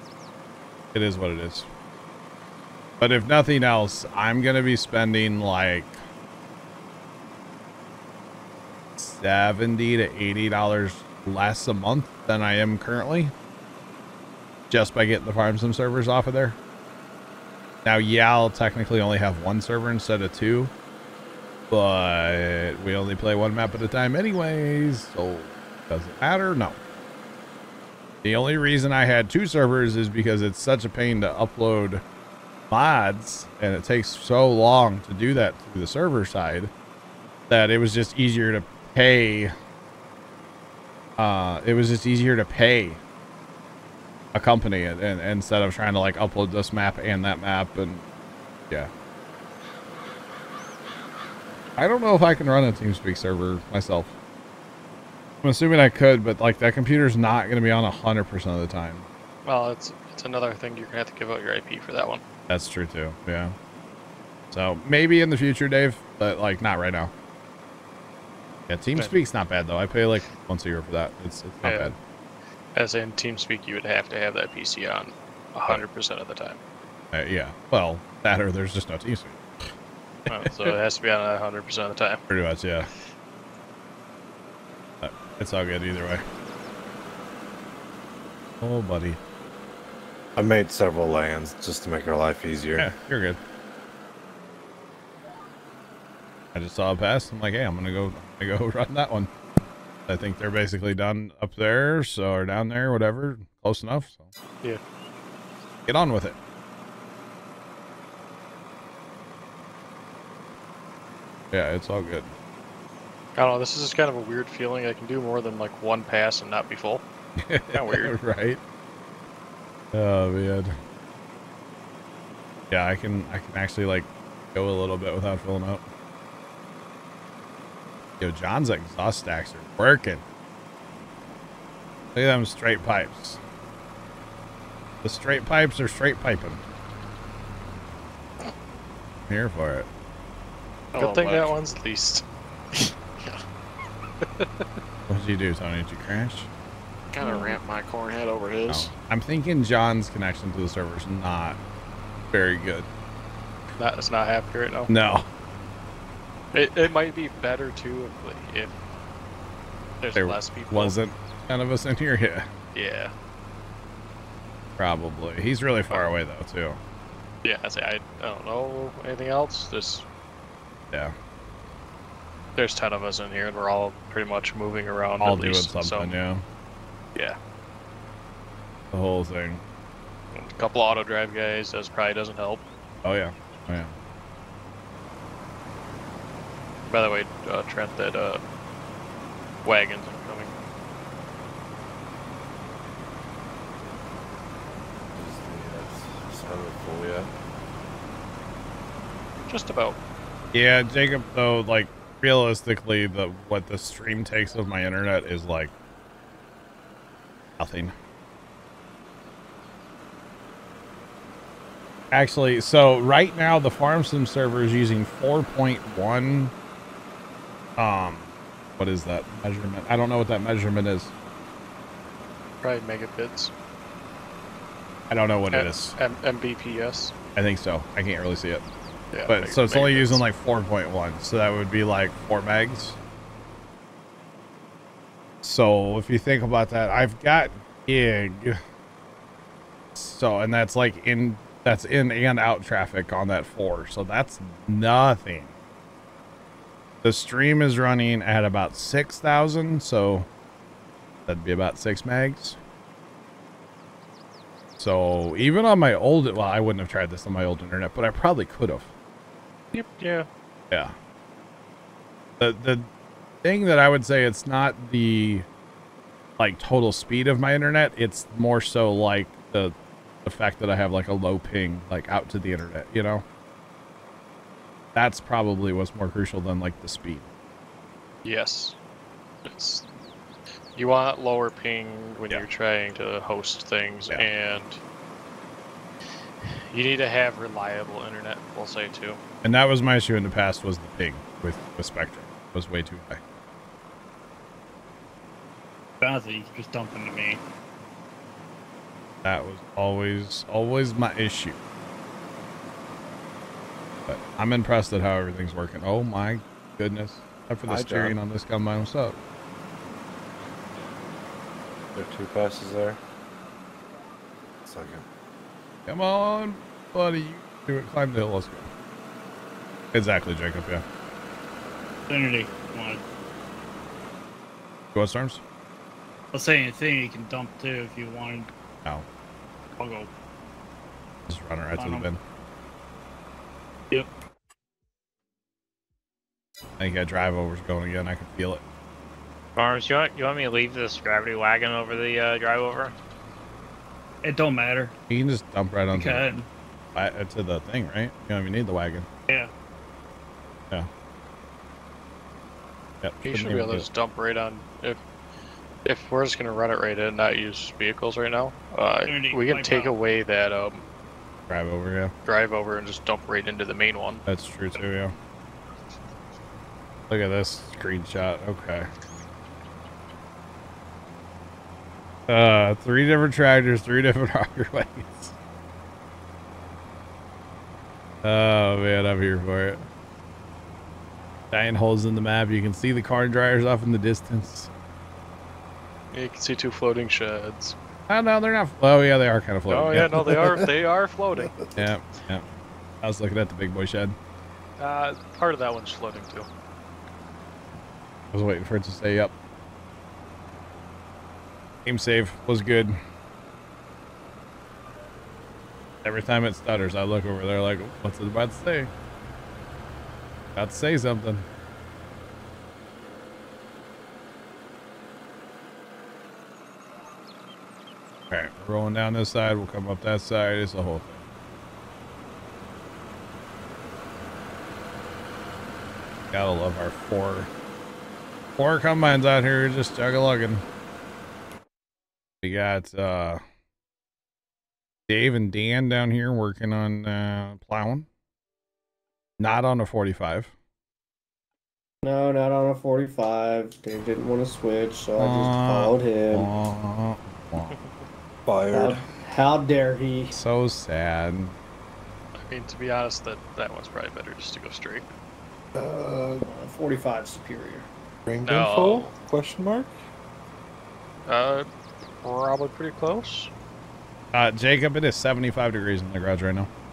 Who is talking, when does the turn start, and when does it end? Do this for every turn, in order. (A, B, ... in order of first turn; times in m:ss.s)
0:00.9-0:01.7 A
0:03.0-0:06.0 A
0:09.0-0:13.3 A
0:14.7-0:16.6 A
0:17.8-0:20.7 A
0:21.7-0:26.8 A
0:28.2-0:32.0 A
0:32.7-0:36.7 A
0:37.5-0:39.5 A
0:41.2-0:43.0 A
0:44.3-0:48.0 A
0:51.8-0:54.1 A
0:55.4-0:59.1 A
0:59.4-1:02.2 B
1:02.5-1:03.6 A
1:04.5-1:07.1 A
1:08.7-1:11.9 A
1:11.6-1:11.9 B
1:12.7-1:16.6 B
1:17.1-1:19.4 A
1:20.3-1:20.7 A
1:20.3-1:22.2 B
1:22.3-1:22.9 A
1:25.0-1:26.2 A
1:28.6-1:29.2 A
1:30.4-1:32.9 C
1:32.8-1:33.4 A
1:36.5-1:39.3 A
1:40.1-1:44.3 A
1:45.9-1:46.4 A
1:51.5-1:52.3 A
1:53.4-1:57.0 B
1:57.4-1:58.6 A
1:57.7-1:58.1 B
1:59.9-2:00.8 A
2:02.7-2:05.8 A
2:08.2-2:10.2 A
2:12.1-2:13.4 A
2:15.0-2:16.6 A
2:19.3-2:19.9 A
2:20.9-2:22.2 B
2:20.9-2:21.6 D
2:24.4-2:24.6 B
2:25.1-2:26.5 A
2:27.1-2:28.9 D
2:27.2-2:27.5 B
2:28.7-2:31.6 A
2:32.3-2:32.9 A
2:33.8-2:34.9 B
2:34.9-2:35.3 A
2:36.5-2:38.8 B
2:40.0-2:41.0 B
2:40.1-2:42.5 A
2:42.7-2:43.1 B
2:44.8-2:46.8 A
2:47.4-2:50.0 B
2:52.6-2:56.2 B
2:55.2-2:56.4 A
2:58.9-2:59.6 A
3:00.3-3:02.6 B
3:03.0-3:03.9 A
3:06.9-3:08.4 B
3:09.6-3:10.6 B
3:15.1-3:17.3 C
3:19.5-3:20.0 B
3:20.5-3:25.7 A
3:27.6-3:27.9 A
3:32.1-3:36.5 A
3:37.8-3:41.1 A
3:42.6-3:43.5 B
3:45.1-3:46.0 A
3:45.5-3:47.1 B
3:47.3-3:48.6 A
3:49.1-3:50.2 B
3:49.3-3:53.0 A
3:55.4-3:58.6 A
3:59.9-4:05.5 A
4:07.0-4:10.3 A
4:11.3-4:12.6 A
4:14.8-4:18.9 A
4:19.7-4:20.3 B
4:20.7-4:21.0 A
4:22.4-4:22.9 A
4:23.4-4:25.4 A
4:26.4-4:33.2 A
4:34.9-4:37.3 A
4:38.2-4:38.8 B
4:39.4-4:39.9 B
4:40.7-4:44.8 B
4:46.5-4:49.2 B
4:49.4-4:53.2 A
4:56.0-4:57.4 E
4:59.2-5:01.6 A
5:04.1-5:09.2 A
5:07.6-5:08.2 C
5:11.9-5:13.0 C
5:14.6-5:15.0 C
5:15.9-5:18.7 A
5:19.9-5:20.8 A
5:22.1-5:23.0 E
5:24.9-5:25.4 A
5:26.3-5:28.5 E
5:29.8-5:30.1 E
5:31.3-5:32.2 A
5:31.8-5:32.1 E
5:36.8-5:38.6 A
5:39.6-5:42.9 F
5:44.2-5:44.9 E
5:45.1-5:46.3 A
5:45.9-5:46.5 E
5:46.9-5:49.1 A
5:53.0-5:53.9 A
5:53.2-5:55.0 B
5:55.8-6:00.8 B
5:59.0-6:00.0 E
6:01.5-6:02.1 A
6:02.2-6:04.2 B
6:04.2-6:05.1 A
6:07.1-6:08.9 A
6:12.3-6:15.3 A
6:18.2-6:19.8 A
6:21.5-6:24.7 A
6:26.1-6:27.8 B
6:28.1-6:30.6 A
6:29.7-6:31.6 B
6:30.1-6:30.6 C
6:31.4-6:31.6 C
6:31.7-6:32.5 A
6:33.0-6:34.2 A
6:34.8-6:36.5 B
6:38.3-6:39.3 A
6:41.8-6:43.0 A
6:46.0-6:48.9 A
6:50.6-6:51.4 A
6:58.3-7:01.2 A
7:06.3-7:07.5 A
7:08.6-7:10.6 A
7:12.4-7:13.4 A
7:15.1-7:18.0 A
7:19.4-7:20.5 A
7:22.0-7:26.5 G
7:25.2-7:27.8 A
7:28.4-7:29.1 C
7:28.7-7:30.3 G
7:30.3-7:31.6 A
7:32.4-7:35.1 B
7:35.8-7:36.4 C
7:36.4-7:37.9 G
7:38.2-7:39.9 C
7:38.4-7:39.1 B
7:41.3-7:41.7 B
7:42.2-7:43.5 B
7:44.3-7:46.7 A